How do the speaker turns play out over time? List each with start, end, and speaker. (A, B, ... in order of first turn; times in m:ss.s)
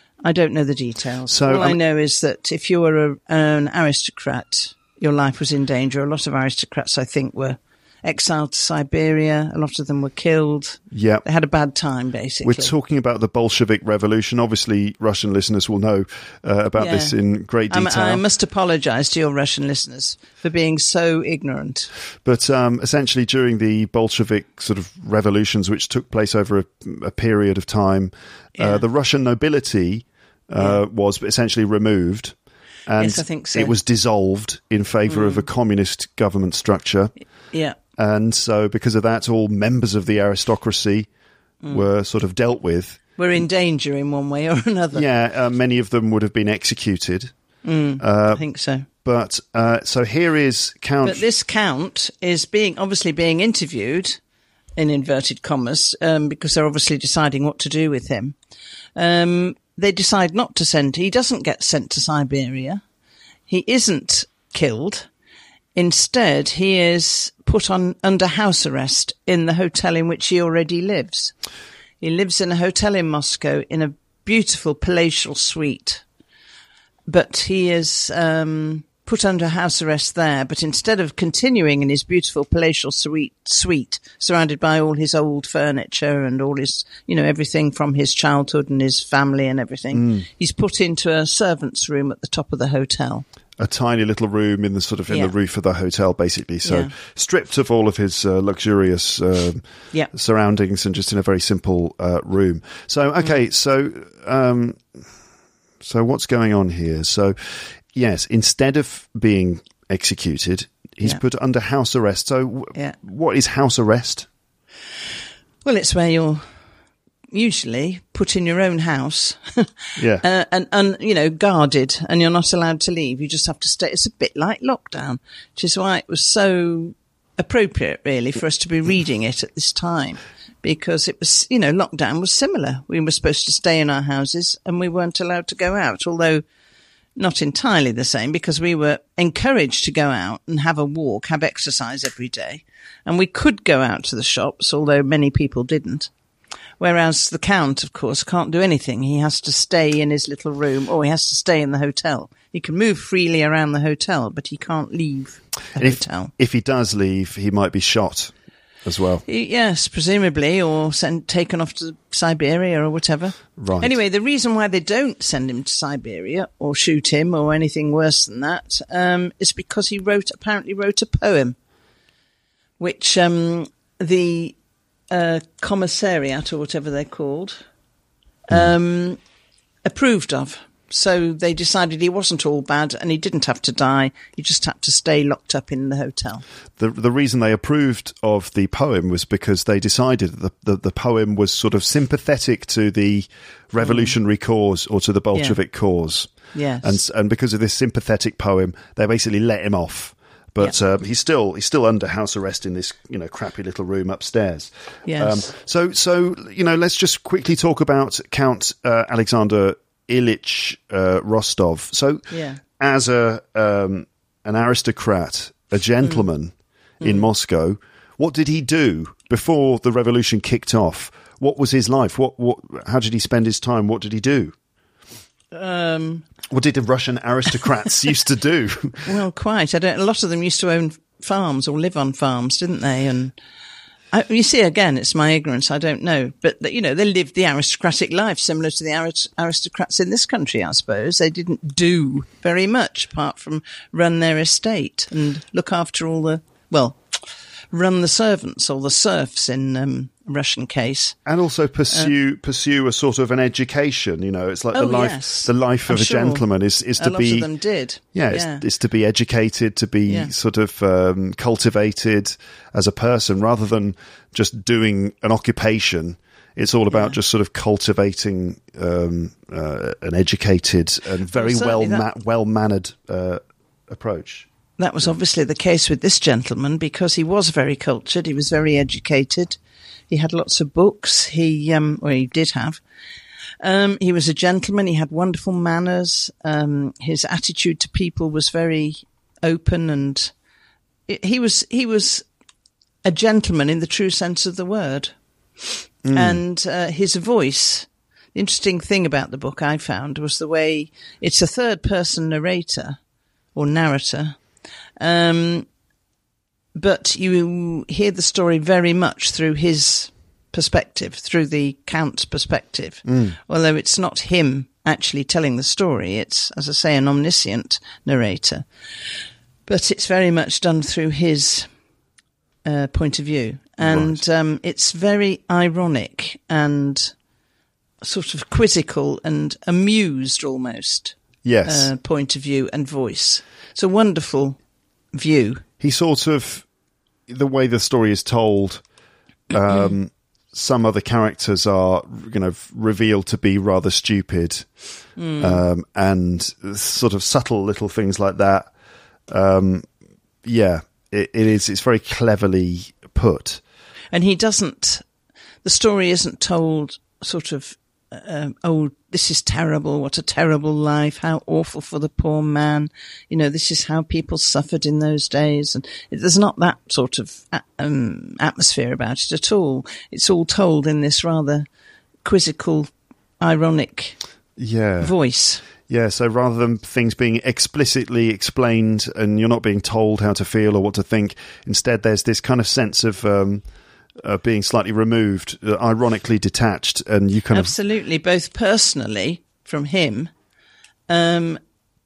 0:00.2-0:12.7 A
0:01.3-0:01.8 B
0:10.9-0:11.2 B
0:12.4-0:18.2 B
0:16.8-0:17.2 A
0:17.7-0:21.9 A
0:22.2-0:32.4 B
0:28.6-0:28.8 A
0:32.9-0:37.1 B
0:33.0-0:33.7 A
0:35.1-0:35.4 A
0:37.5-0:37.8 A
0:38.0-0:41.1 B
0:41.7-0:43.0 B
0:43.2-0:45.0 A
0:44.9-0:47.3 B
0:47.6-0:48.9 A
0:48.0-0:51.2 B
0:51.0-0:54.2 A
0:54.8-0:58.4 A
0:59.0-1:02.8 A
1:03.5-1:05.1 A
1:05.7-1:11.3 A
1:12.0-1:16.0 A
1:17.1-1:33.2 A
1:29.9-1:30.2 B
1:33.6-1:44.9 B
1:36.6-1:36.9 A
1:45.8-1:54.3 B
1:55.6-1:56.5 A
1:57.3-2:16.4 A
2:00.0-2:00.2 B
2:17.2-2:26.1 A
2:26.8-2:36.3 A
2:35.8-2:38.3 B
2:38.8-2:39.2 B
2:39.2-2:51.6 A
2:43.6-2:44.0 B
2:52.8-2:54.6 A
2:55.1-2:57.6 A
2:58.5-2:59.2 A
2:59.8-3:06.4 A
3:06.8-3:44.5 B
3:13.8-3:14.1 A
3:16.5-3:17.0 A
3:25.0-3:25.4 A
3:32.3-3:32.6 A
3:37.0-3:37.3 A
3:45.5-3:46.3 A
3:46.5-3:49.1 B
3:49.0-3:53.3 A
3:54.1-4:11.2 A
4:11.2-4:17.5 B
4:14.7-4:16.4 A
4:17.0-4:18.6 A
4:18.0-4:34.4 B
4:20.0-4:20.3 A
4:31.3-4:32.0 A
4:34.8-4:39.6 A
4:40.1-4:42.8 A
4:43.6-4:50.3 A
4:51.1-4:52.2 A
4:53.0-5:03.0 A
4:56.0-4:56.4 B
5:03.5-5:04.4 A
5:05.0-5:05.7 A
5:06.7-5:18.6 A
5:13.0-5:13.4 B
5:19.6-5:21.7 A
5:22.6-5:27.1 A
5:23.8-5:24.2 B
5:28.0-5:34.6 A
5:31.4-5:31.9 B
5:35.1-5:35.6 A
5:35.8-5:36.6 B
5:37.3-5:38.8 B
5:39.5-5:44.7 B
5:45.2-5:45.6 A
5:45.4-5:48.7 B
5:49.3-5:49.9 B
5:50.4-5:53.6 B
5:54.1-5:55.0 A
5:55.6-6:11.7 A
6:12.2-6:14.2 A
6:14.6-6:15.1 B
6:15.0-6:15.6 A
6:15.6-6:23.6 B
6:24.2-6:27.7 B
6:27.5-6:30.3 A
6:31.1-6:31.6 A